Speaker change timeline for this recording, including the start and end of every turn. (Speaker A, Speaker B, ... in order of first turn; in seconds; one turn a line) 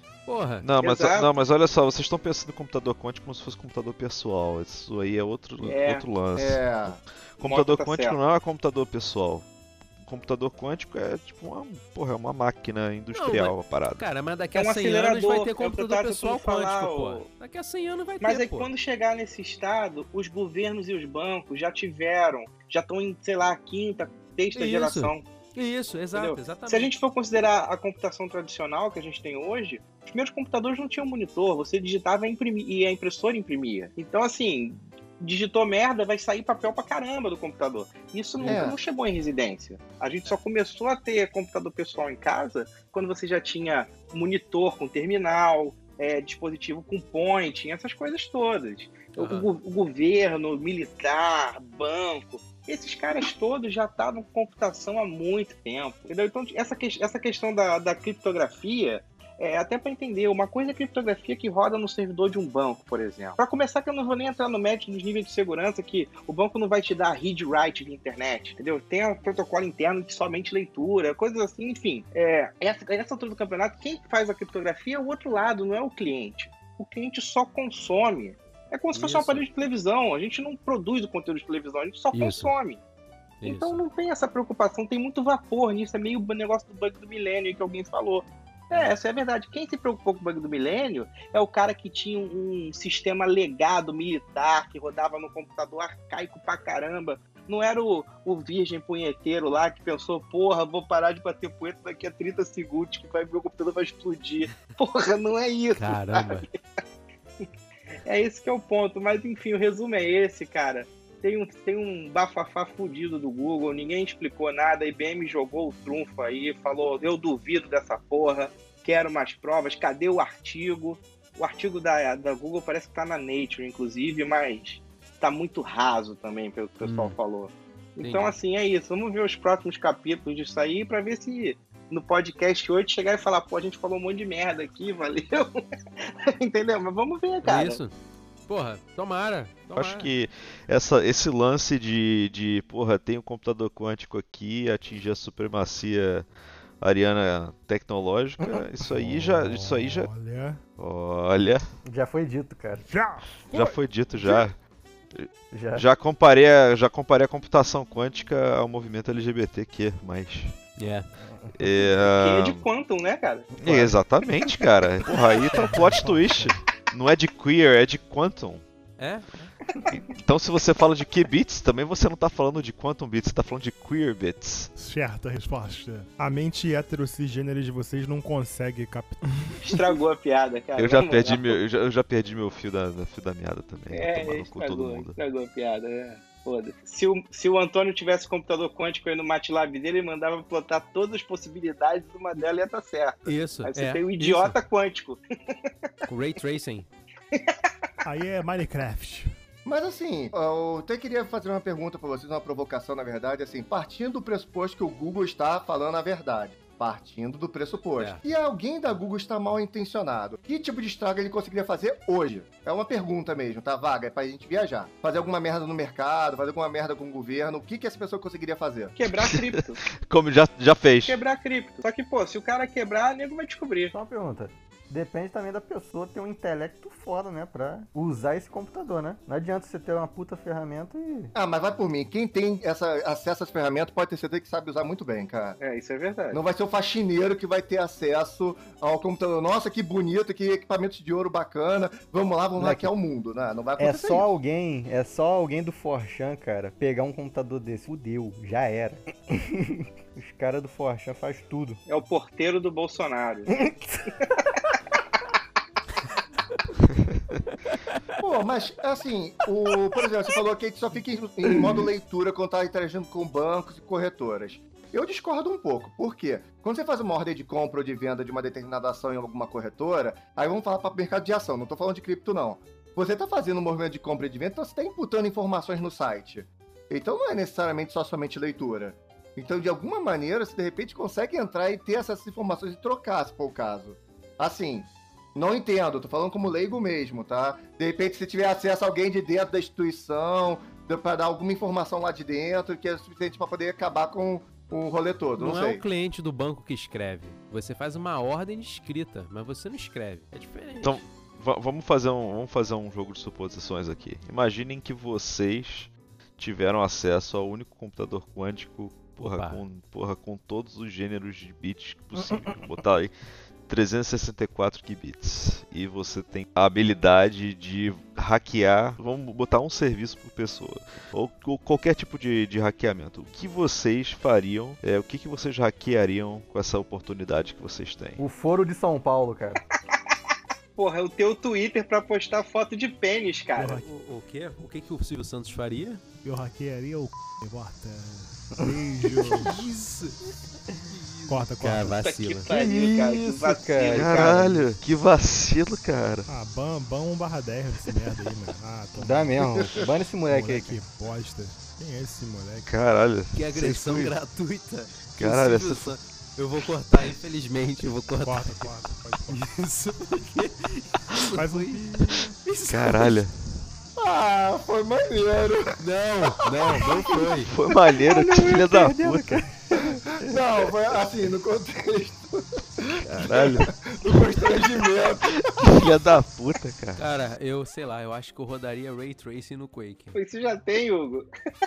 Speaker A: 0.3-0.7
Speaker B: 0.6-9.5
Speaker C: 0.8-1.3
Speaker C: 5.6-6.1
Speaker D: 6.3-7.0
Speaker C: 7.5-8.2
Speaker B: 10.0-14.0
Speaker A: 13.1-18.7
Speaker C: 14.5-17.3
Speaker C: 18.2-25.2
Speaker A: 24.5-26.9
Speaker C: 26.1-82.8
Speaker D: 38.4-38.8
Speaker A: 49.2-49.5
Speaker A: 78.9-79.5
Speaker A: 82.1-82.5
Speaker A: 83.4-83.8
Speaker C: 83.4-106.6
Speaker A: 105.8-106.5
Speaker C: 108.0-137.8
Speaker A: 126.8-127.2
Speaker A: 128.0-128.4
Speaker A: 137.4-137.9
Speaker A: 138.5-140.1
Speaker B: 139.8-146.3
Speaker B: 146.8-150.1
Speaker E: 148.4-148.7
Speaker F: 149.0-150.6
Speaker B: 150.8-151.6
Speaker E: 151.9-152.9
Speaker F: 152.8-154.5
Speaker B: 153.5-154.6
Speaker B: 155.1-160.6
Speaker E: 155.5-155.9
Speaker A: 160.8-161.1
Speaker E: 161.2-161.7
Speaker B: 161.6-162.7
Speaker C: 162.0-163.6
Speaker B: 163.6-168.6
Speaker F: 165.7-166.5
Speaker A: 169.0-169.3
Speaker B: 169.9-174.7
Speaker F: 174.8-179.9
Speaker C: 179.6-181.6
Speaker B: 180.8-185.2
Speaker C: 183.9-195.7
Speaker A: 193.3-194.6
Speaker A: 196.1-196.9
Speaker C: 197.3-197.6
Speaker F: 198.0-199.3
Speaker D: 199.7-219.0
Speaker A: 208.0-208.2
Speaker C: 219.0-219.8
Speaker B: 220.0-221.2
Speaker C: 221.1-223.9
Speaker E: 223.9-231.3
Speaker D: 231.3-235.6
Speaker C: 235.6-236.4
Speaker D: 236.3-244.3
Speaker E: 242.6-242.9
Speaker E: 243.8-251.8
Speaker C: 251.9-254.1
Speaker E: 253.5-254.1
Speaker D: 258.2-295.8
Speaker A: 295.4-301.1
Speaker B: 300.8-313.1
Speaker A: 309.2-309.6
Speaker B: 313.7-328.2
Speaker E: 328.2-329.6
Speaker C: 330.8-333.8
Speaker F: 333.6-333.9
Speaker A: 333.8-336.0
Speaker F: 336.2-339.6
Speaker A: 339.3-340.2
Speaker A: 340.9-342.5
Speaker F: 341.3-342.1
Speaker C: 342.0-344.5
Speaker E: 342.5-344.7
Speaker B: 343.9-346.3
Speaker F: 346.3-352.7
Speaker E: 349.0-350.8
Speaker B: 352.6-354.2
Speaker A: 353.3-358.7
Speaker B: 355.2-356.0
Speaker F: 358.2-359.4
Speaker A: 359.3-363.2
Speaker F: 361.3-362.0
Speaker B: 362.7-363.6
Speaker D: 364.0-365.8
Speaker A: 365.8-367.5
Speaker D: 366.6-366.8
Speaker B: 367.5-369.4
Speaker E: 368.0-370.4
Speaker D: 370.2-375.7
Speaker B: 373.2-373.7
Speaker B: 375.4-377.0
Speaker A: 377.0-380.2
Speaker C: 380.1-381.3